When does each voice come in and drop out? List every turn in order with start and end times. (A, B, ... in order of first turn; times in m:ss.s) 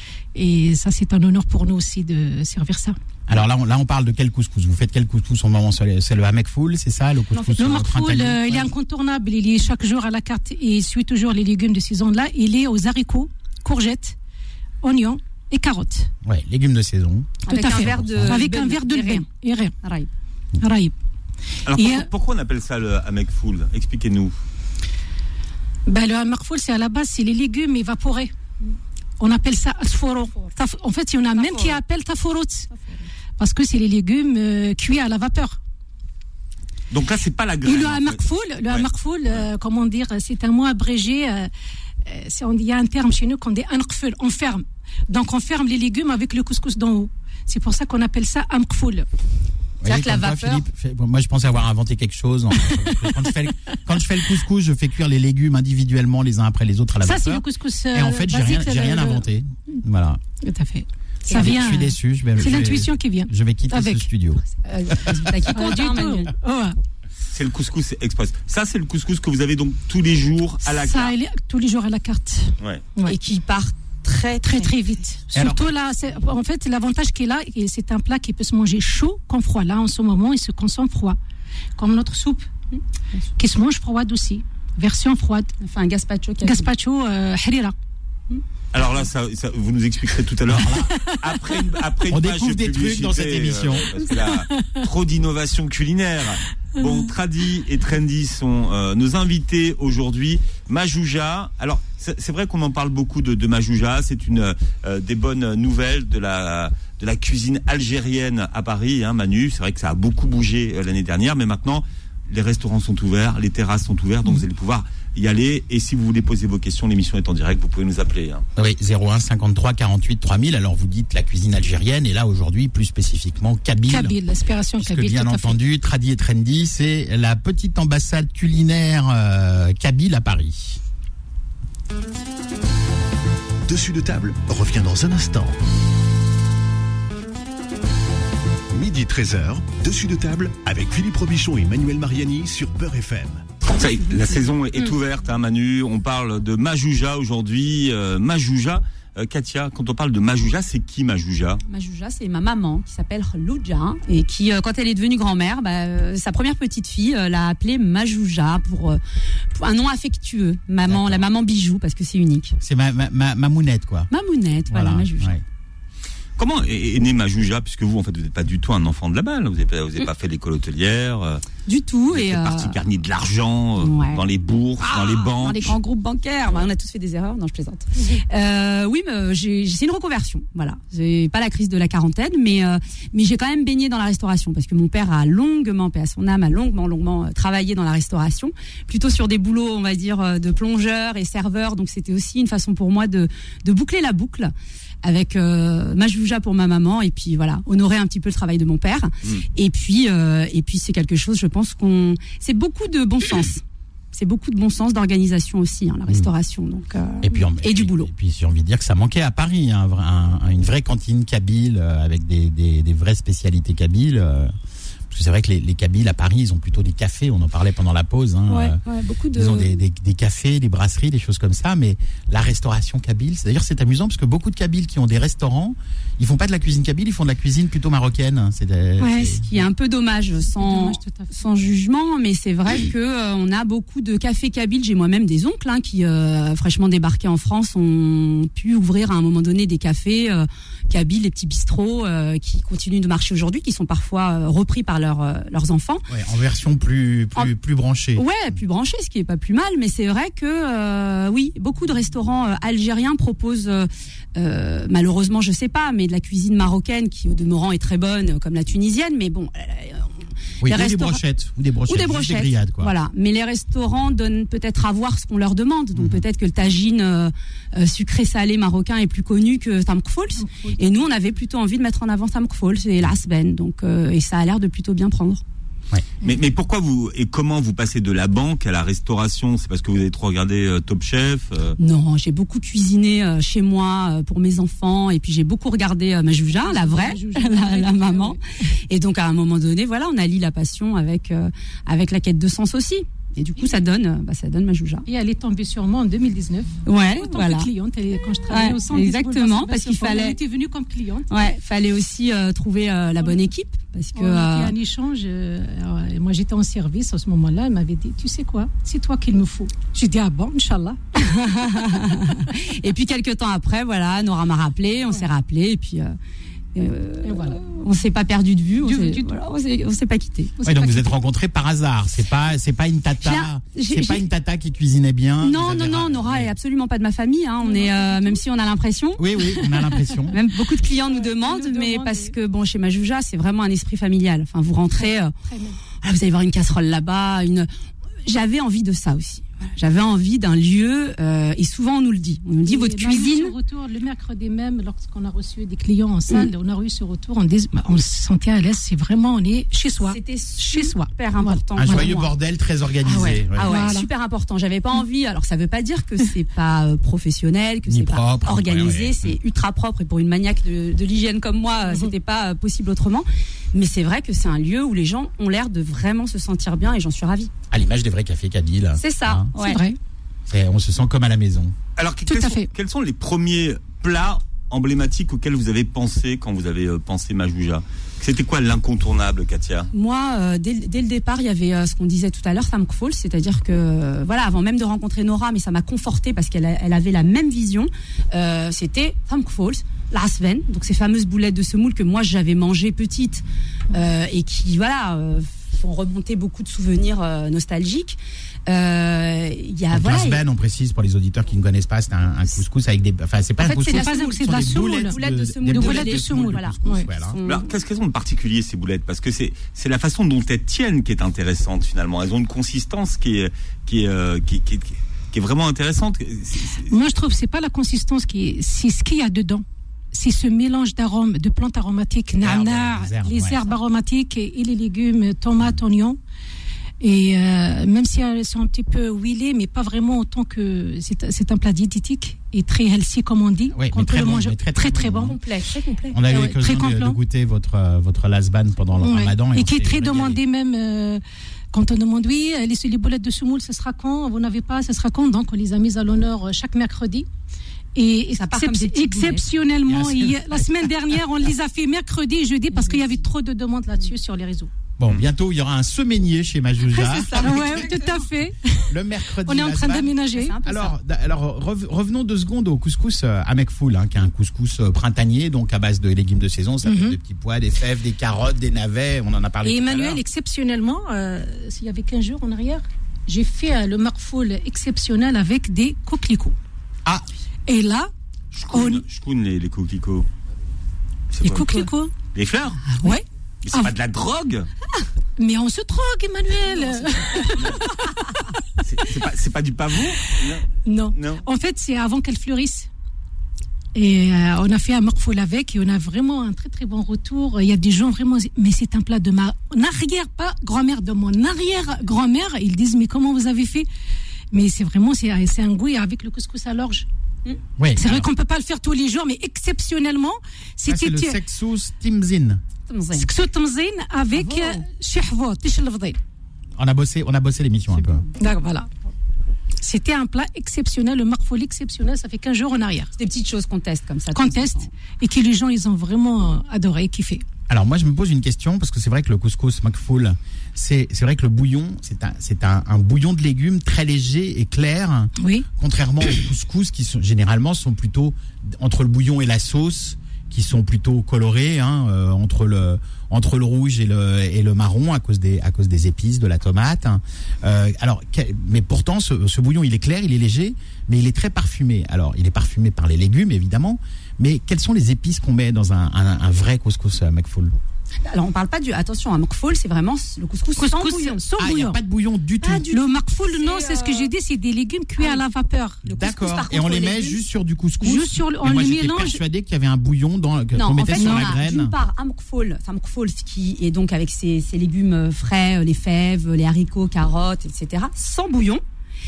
0:00.4-0:03.0 A
0:03.3-0:08.7 B
0:07.3-0:07.8 C
0:07.6-0:14.2 A
0:14.8-0:16.1 A
0:16.2-0:18.4 B
0:17.5-0:19.3 C
0:17.5-0:19.8 A
0:19.8-0:20.1 C
0:20.6-0:20.9 A
0:21.7-0:24.3 D
0:21.8-0:22.1 A
0:25.9-0:28.3 A
0:29.2-0:32.7 A
0:31.4-0:31.8 C
0:33.4-0:35.6 A
0:36.9-0:38.9 D
0:37.6-0:41.5 A
0:42.0-0:49.1 A
0:49.8-1:00.2 B
0:49.8-0:50.6 C
0:57.0-0:59.3 A
1:00.4-1:04.1 A
1:01.3-1:01.8 C
1:01.3-1:05.4 B
1:04.5-1:06.3 C
1:05.5-1:06.8 A
1:07.3-1:11.1 D
1:10.7-1:13.2 A
1:13.0-1:14.8 C
1:14.4-1:21.2 A
1:15.3-1:15.7 B
1:21.8-1:22.5 A
1:22.7-1:23.2 C
1:23.4-1:25.5 A
1:25.6-1:26.7 C
1:26.4-1:27.7 A
1:28.7-1:58.4 D
1:30.5-1:30.9 B
1:30.9-1:31.2 A
1:32.1-1:34.0 B
1:34.2-1:34.8 A
1:58.6-2:04.2 B
2:03.9-2:05.6 A
2:04.8-2:10.8 B
2:13.7-2:15.6 E
2:18.7-2:23.5 E
2:23.7-2:31.6 D
2:31.7-2:39.0 C
2:39.5-2:42.6 C
2:40.9-2:41.3 B
2:42.6-2:44.1 B
2:44.1-2:45.4 C
2:44.7-2:45.4 B
2:46.4-2:51.4 D
2:51.7-2:52.8 C
2:52.1-2:55.8 D
2:53.8-2:54.2 C
2:54.8-3:28.1 C
3:27.2-3:34.5 B
3:35.1-3:38.8 B
3:38.5-3:39.7 C
3:39.3-3:49.7 B
3:49.0-3:49.4 A
3:49.4-4:06.0 C
3:50.6-3:51.3 A
4:06.1-4:08.3 B
4:08.2-4:21.2 C
4:20.6-4:22.9 B
4:21.9-4:35.4 C
4:26.0-4:26.2 B
4:30.4-4:31.0 A
4:36.2-4:41.8 D
4:41.8-4:48.4 C
4:46.6-4:48.4 A
4:48.9-4:55.0 C
4:55.1-5:01.3 A
4:56.9-4:57.7 C
4:58.5-5:00.4 C
5:01.3-5:04.7 C
5:04.2-5:11.0 A
5:11.2-5:16.2 C
5:16.8-5:20.6 C
5:17.2-5:17.6 A
5:18.8-5:19.4 A
5:20.6-5:21.2 A
5:20.6-5:26.5 B
5:23.2-5:24.2 C
5:25.4-5:29.7 C
5:27.6-5:28.4 A
5:29.2-5:30.4 B
5:30.3-5:35.3 C
5:30.8-5:32.4 A
5:35.0-5:35.8 A
5:36.0-5:37.7 C
5:38.2-5:43.6 C
5:42.6-5:52.1 A
5:50.1-5:52.3 C
5:51.8-5:53.9 B
5:53.0-6:07.5 C
5:53.6-5:54.1 A
5:57.9-5:59.4 B
6:07.7-6:09.5 B
6:09.0-6:09.8 C
6:09.6-6:10.0 A
6:10.5-6:11.8 B
6:12.0-6:19.9 D
6:12.3-6:12.7 A
6:19.9-6:40.4 C
6:39.9-6:47.4 B
6:43.6-6:47.7 C
6:43.8-6:45.2 A
6:45.7-6:47.1 A
6:47.4-6:56.9 D
6:56.8-7:06.2 A
7:02.4-7:03.8 B
7:07.0-7:15.4 A
7:13.7-7:15.4 B
7:15.2-7:16.2 C
7:16.1-7:20.4 B
7:16.3-7:17.2 A
7:19.0-7:27.3 A
7:28.0-7:34.7 A
7:28.4-7:29.5 C
7:29.9-7:30.9 B
7:32.7-7:33.2 C
7:35.0-7:37.9 B
7:36.9-7:38.2 C
7:37.4-7:38.9 A
7:38.8-7:50.2 B
7:39.4-7:40.6 A
7:40.3-7:41.0 C
7:46.8-7:47.2 A
7:49.6-7:56.6 A
7:57.7-7:58.1 A
7:58.5-8:00.3 D
7:58.7-7:59.0 A
8:01.3-8:02.8 D
8:01.4-8:02.1 A
8:02.9-8:03.1 C
8:03.0-8:03.9 A
8:03.6-8:04.7 D
8:05.4-8:08.0 A
8:07.5-8:07.8 D
8:08.8-8:11.4 D
8:10.8-8:12.9 A
8:14.0-8:23.9 A
8:24.5-8:27.1 A
8:27.8-8:28.3 B
8:28.0-8:31.4 A
8:30.9-8:32.6 B
8:32.9-8:33.3 C
8:33.1-8:36.2 A
8:34.3-8:34.8 C
8:36.8-8:38.2 B
8:38.0-8:38.2 C
8:38.4-8:38.9 A
8:39.8-8:43.1 A
8:43.2-8:44.9 C
8:44.3-8:47.4 A
8:47.7-9:17.7 B
8:55.4-8:55.7 A
9:18.2-9:21.4 C
9:20.8-9:22.0 A
9:21.6-9:22.9 B
9:22.6-9:24.3 C
9:22.9-9:26.0 A
9:26.0-9:31.9 B
9:26.1-9:27.4 C
9:28.0-9:29.4 A
9:30.7-9:38.8 C
9:31.2-9:31.5 A